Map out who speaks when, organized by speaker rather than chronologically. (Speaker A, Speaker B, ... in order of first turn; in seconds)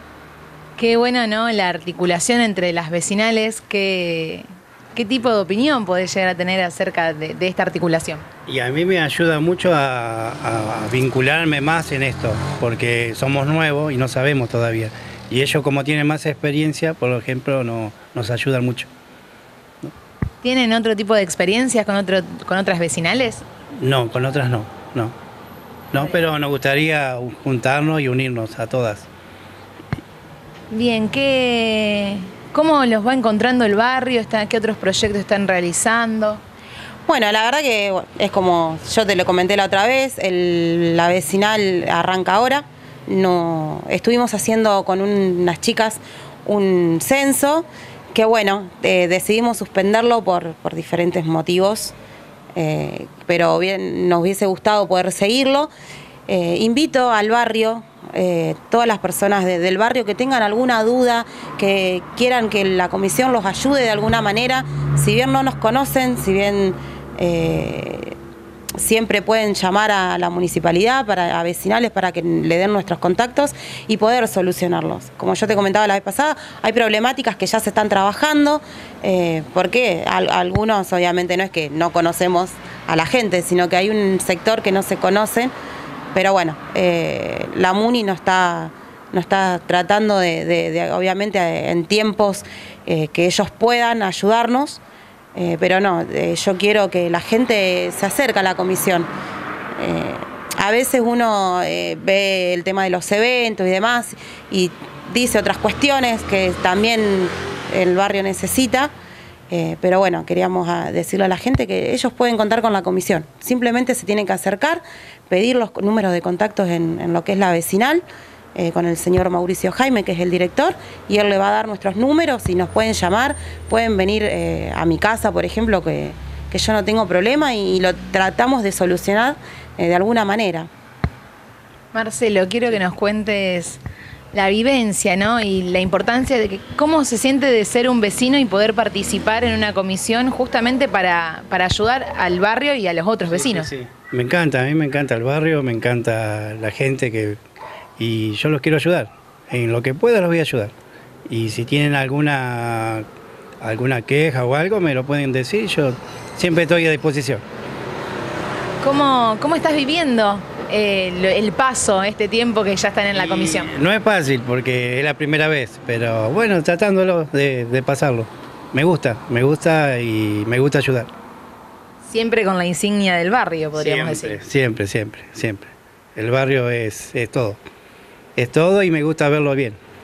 Speaker A: 0.8-8.2, 20.4-23.4, 30.7-36.4, 131.9-133.8, 134.3-143.7, 158.8-163.7, 172.0-174.4
Speaker B: 8.5-18.9, 23.8-25.1, 25.9-29.1, 143.3-147.4, 148.0-150.7, 151.3-153.1, 153.6-157.4, 163.1-171.1, 173.8-177.6, 178.4-179.8
Speaker C: 37.1-52.0, 52.6-55.7, 56.3-68.2, 68.8-85.5, 86.1-94.8, 95.3-99.1, 99.8-108.9, 109.5-118.0, 118.6-130.7